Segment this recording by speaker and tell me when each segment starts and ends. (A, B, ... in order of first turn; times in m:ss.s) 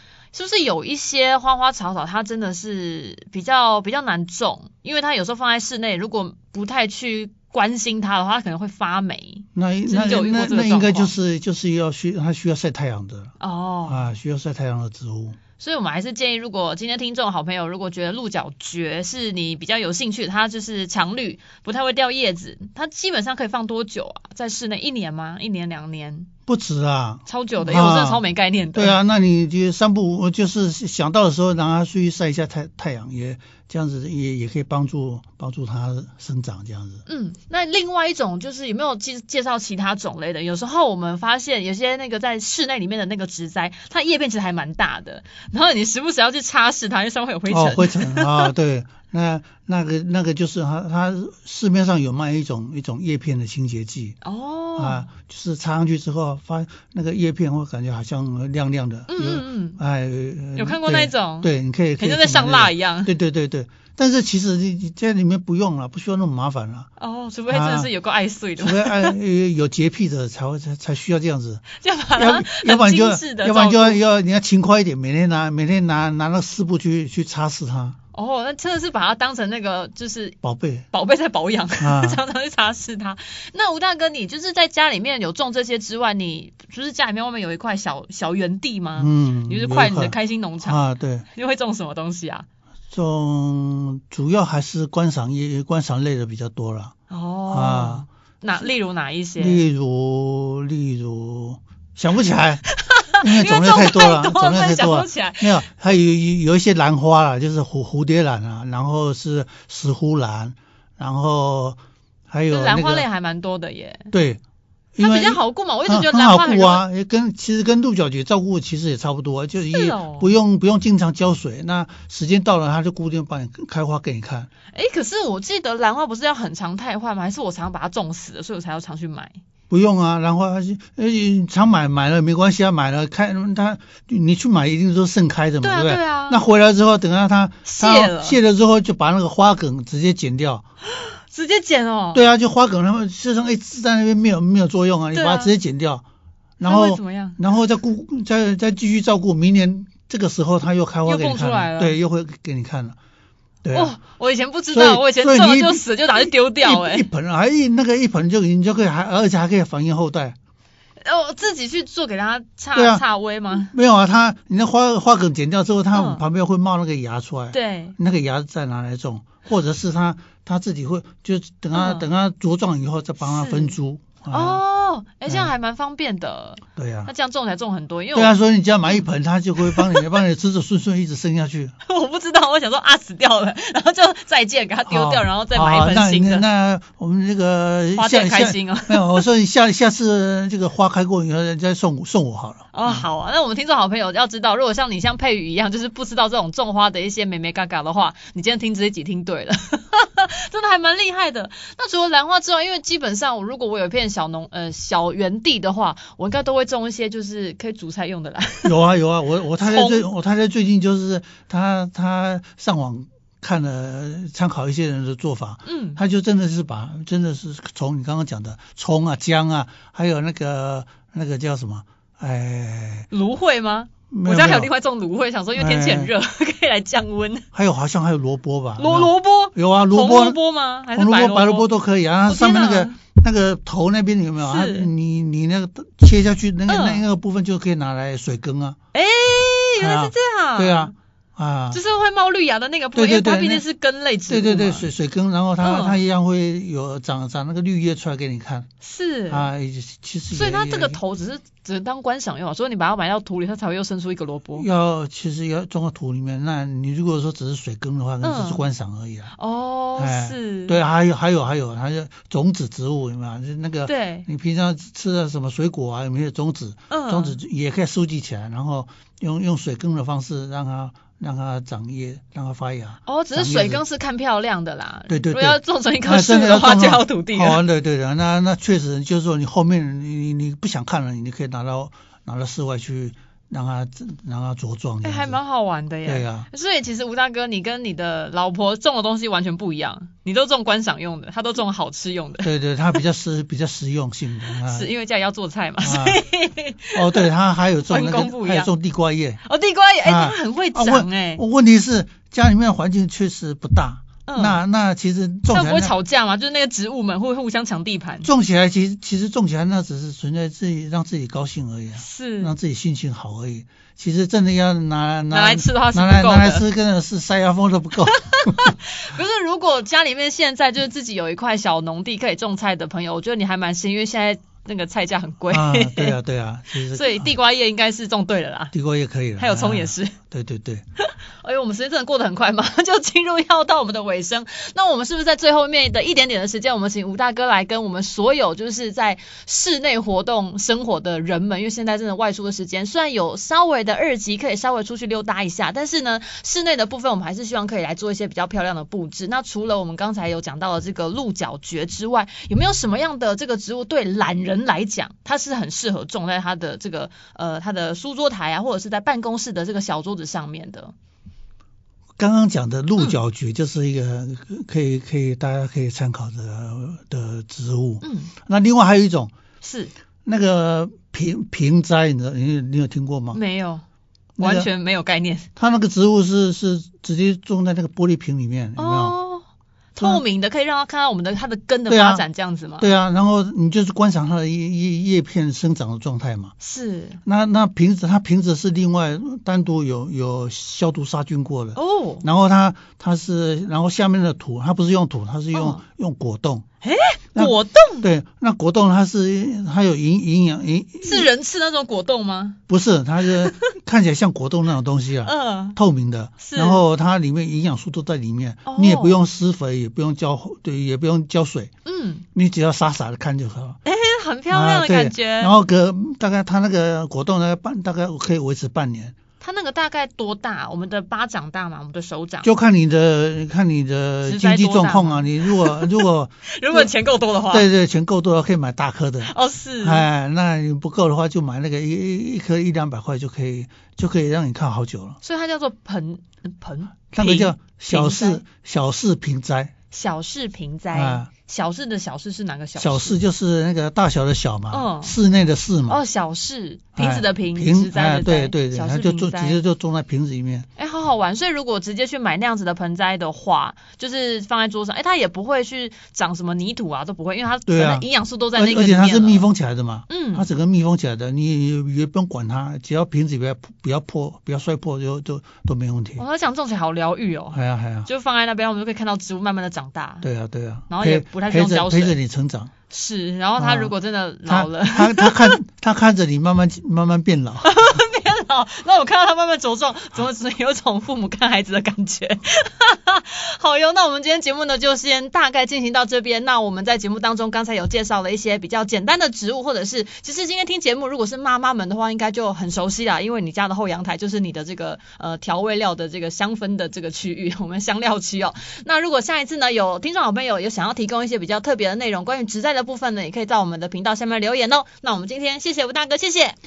0:00.3-0:11.1 A
0:09.6-0:13.3 B
0:13.4-0:14.0 A
0:13.8-0:15.4 B
0:15.6-0:26.3 A
0:26.5-0:28.2 B
0:27.2-0:29.0 A
0:28.7-0:37.0 B
0:37.0-0:48.5 A
0:47.5-0:54.2 B
0:54.2-0:55.1 A
0:54.8-1:06.9 B
0:59.1-0:59.8 A
1:00.6-1:03.1 A
1:07.0-1:09.2 A
1:07.5-1:07.9 B
1:08.6-1:18.0 B
1:11.8-1:14.0 A
1:18.1-1:20.4 A
1:20.4-1:20.8 B
1:20.9-1:30.8 A
1:21.8-1:22.2 B
1:29.0-1:31.2 B
1:31.3-1:32.4 A
1:32.9-1:36.9 B
1:37.1-1:39.6 A
1:37.5-1:38.0 B
1:39.4-1:42.6 B
1:42.9-1:45.5 A
1:43.2-1:51.8 B
1:52.3-1:53.0 B
1:52.5-1:54.1 A
1:54.1-1:54.4 B
1:54.9-2:04.5 B
1:55.0-1:56.8 A
1:59.7-2:00.3 A
2:04.7-2:09.4 A
2:09.7-2:20.6 B
2:15.6-2:16.4 A
2:17.6-2:18.4 A
2:20.9-2:22.2 A
2:22.1-2:26.0 B
2:25.1-2:25.6 A
2:26.6-2:33.0 B
2:26.6-2:27.4 A
2:31.0-2:32.0 A
2:33.6-2:33.9 B
2:33.7-2:37.0 A
2:34.7-2:35.8 B
2:36.6-2:40.3 B
2:41.0-2:43.7 A
2:42.7-2:54.6 B
2:45.9-2:46.2 A
2:47.5-2:48.0 A
2:51.7-2:52.1 A
2:53.2-2:53.8 A
2:54.3-2:58.4 A
2:55.2-2:55.5 B
2:56.8-2:57.1 B
2:58.1-3:01.8 B
2:59.6-3:00.0 A
3:01.8-3:06.4 A
3:04.9-3:13.1 B
3:08.0-3:09.2 A
3:12.7-3:28.8 A
3:28.6-3:43.1 B
3:29.6-3:30.1 A
3:35.6-3:36.0 A
3:43.1-3:47.4 A
3:44.1-3:44.7 B
3:45.6-3:46.1 B
3:47.5-3:50.4 B
3:48.8-3:51.7 A
3:50.9-3:58.8 B
3:52.3-3:52.9 A
3:54.4-3:54.9 A
3:56.7-3:57.0 A
3:58.9-4:00.9 A
3:59.8-4:01.8 B
4:01.7-4:04.9 A
4:02.9-4:03.6 B
4:04.3-4:08.7 B
4:05.6-4:06.0 A
4:08.8-4:09.5 A
4:09.3-4:11.0 B
4:10.3-4:14.7 A
4:14.6-4:19.3 B
4:18.2-4:18.6 A
4:19.4-4:20.8 A
4:20.0-4:33.8 B
4:23.8-4:24.3 A
4:26.9-4:27.4 A
4:33.0-4:37.6 A
4:35.1-4:45.4 B
4:45.0-4:52.5 A
4:46.0-4:46.4 B
4:52.4-4:54.9 B
4:54.5-4:57.3 A
4:55.8-4:56.2 B
4:56.9-4:59.4 B
4:57.9-4:58.7 A
4:59.4-5:01.4 A
5:00.0-5:05.9 B
5:04.3-5:04.6 A
5:05.5-5:08.3 A
5:08.2-5:18.7 B
5:12.0-5:12.5 A
5:15.3-5:16.6 A
5:18.4-5:26.2 A
5:25.5-5:27.3 B
5:26.9-5:28.7 A
5:28.7-5:30.8 B
5:29.4-5:30.1 A
5:31.0-6:00.9 A
6:02.2-6:09.3 B
6:08.0-6:08.3 A
6:09.6-6:09.9 A
6:10.2-6:13.4 B
6:13.3-6:13.8 A
6:14.4-6:14.7 B
6:14.4-6:15.5 A
6:15.6-6:19.2 B
6:18.8-6:22.9 A
6:21.9-6:22.2 B
6:22.8-6:26.5 B
6:26.6-6:27.2 A
6:27.2-6:36.6 B
6:31.7-6:32.2 A
6:35.5-6:35.8 A
6:36.8-6:38.1 A
6:37.4-6:41.3 B
6:41.0-6:42.6 A
6:42.7-6:51.7 B
6:45.2-6:45.8 A
6:46.4-6:46.8 A
6:48.6-6:49.2 A
6:51.8-6:52.2 A
6:52.3-6:53.8 B
6:53.8-6:55.5 A
6:54.5-6:59.2 B
6:59.4-7:02.5 A
7:02.4-7:06.9 B
7:04.2-7:07.7 A
7:07.5-7:15.2 B
7:09.2-7:10.0 A
7:15.2-7:18.4 A
7:17.1-7:19.7 B
7:19.9-7:23.2 A
7:20.9-7:21.3 B
7:22.8-7:26.0 B
7:24.7-7:25.2 A
7:25.9-7:29.6 A
7:27.0-7:30.7 B
7:30.8-7:39.5 A
7:37.7-7:46.2 B
7:40.1-7:40.4 A
7:46.2-7:50.2 A
7:47.5-7:48.1 B
7:50.2-7:52.7 B
7:50.9-7:52.2 A
7:52.9-7:55.6 A
7:53.6-7:53.9 B
7:54.4-7:57.7 B
7:57.6-8:26.6 A